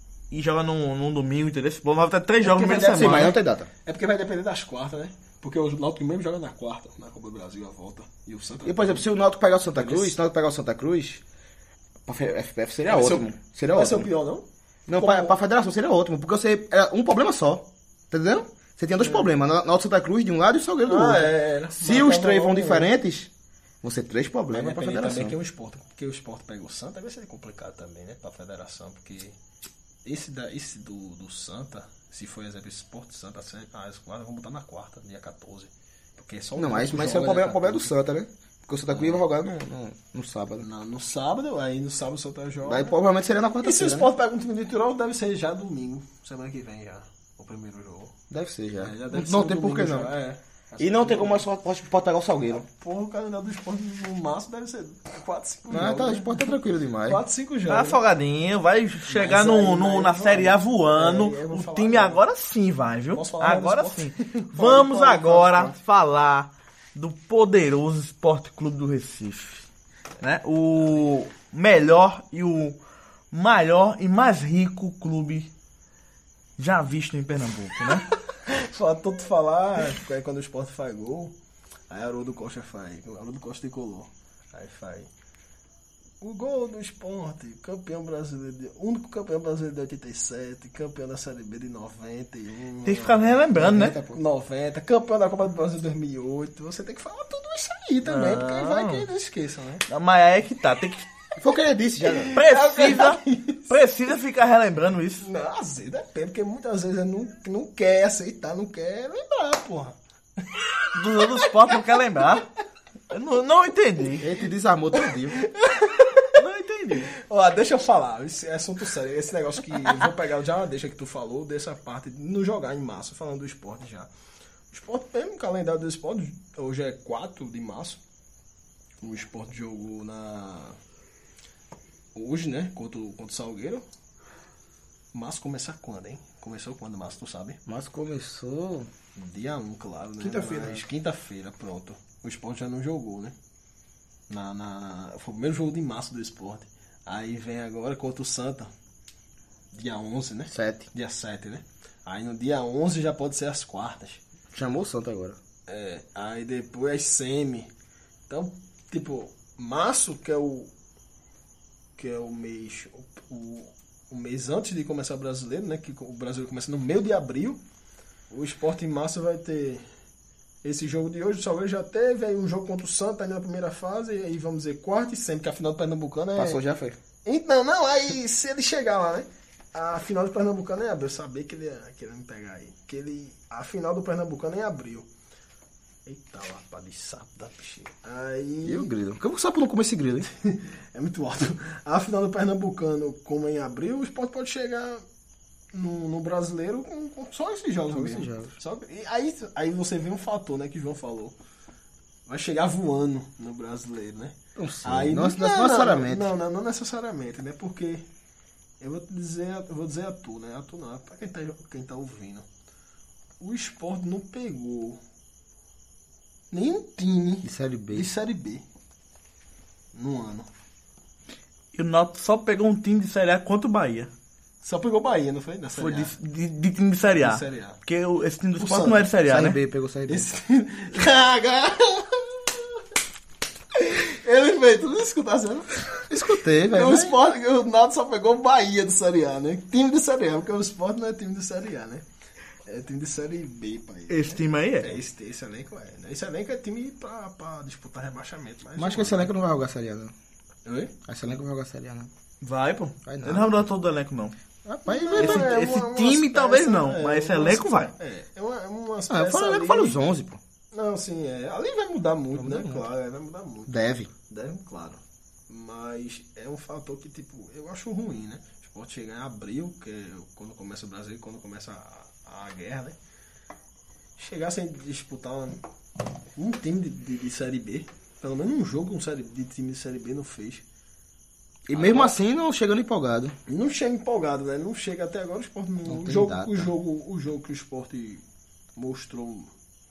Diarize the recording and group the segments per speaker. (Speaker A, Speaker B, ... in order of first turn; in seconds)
Speaker A: 0.3-3.3, 57.7-69.7, 70.2-72.8, 73.3-75.5, 76.6-78.1, 92.8-94.0, 98.0-99.1, 99.9-101.1, 102.3-105.2, 110.9-112.5, 113.1-114.3, 116.3-117.1, 221.7-224.1, 225.8-229.6, 244.1-245.0, 252.4-254.3, 255.1-257.9
Speaker B: 2.4-9.1, 9.7-10.2, 12.8-15.3, 19.0-19.3, 20.9-22.9, 24.5-29.4, 30.0-37.9, 38.9-39.2, 40.6-42.9, 43.6-48.1, 48.8-51.5, 52.5-56.5, 57.1-58.0, 59.0-62.2, 63.1-65.8, 78.3-81.3, 81.9-85.1, 86.2-99.8, 102.1-103.8, 105.2-112.4, 115.3-116.2, 117.1-124.1, 124.7-128.0, 129.0-130.8, 132.1-133.8, 135.1-137.6, 139.1-143.3, 144.3-148.7, 149.7-154.2, 155.7-157.7, 158.3-160.7, 162.0-167.6, 168.3-169.8, 170.6-176.6, 177.2-185.1, 186.0-188.9, 190.3-195.0, 195.7-201.3, 202.3-208.0, 208.8-212.4, 213.4-215.0, 216.5-218.6, 219.9-220.5, 224.6-226.1, 227.2-227.8, 228.6-229.1, 230.1-232.8, 233.8-242.0, 242.7-249.3, 250.7-250.9, 254.7-260.0, 260.7-263.7, 264.3-272.9, 274.2-275.6, 276.3-280.6, 281.7-282.1, 283.5-288.2, 288.8-289.5
Speaker C: 2.7-3.7, 8.6-11.2, 12.1-14.1, 14.9-23.3, 23.8-25.4, 36.5-40.6, 42.6-44.1, 48.3-50.1, 50.8-52.6, 55.7-57.2, 93.5-94.2, 101.4-102.3, 114.2-115.4, 137.7-138.9, 140.2-140.8, 150.5-150.9, 154.5-155.4, 176.3-177.0, 188.6-190.3, 197.9-198.5, 204.6-206.3, 217.4-218.1, 229.2-230.3, 236.1-237.2, 248.8-250.1, 251.0-252.1, 253.0-253.7, 254.8-255.6, 259.1-260.4, 262.3-262.8, 263.7-264.1, 281.7-283.3, 285.9-286.7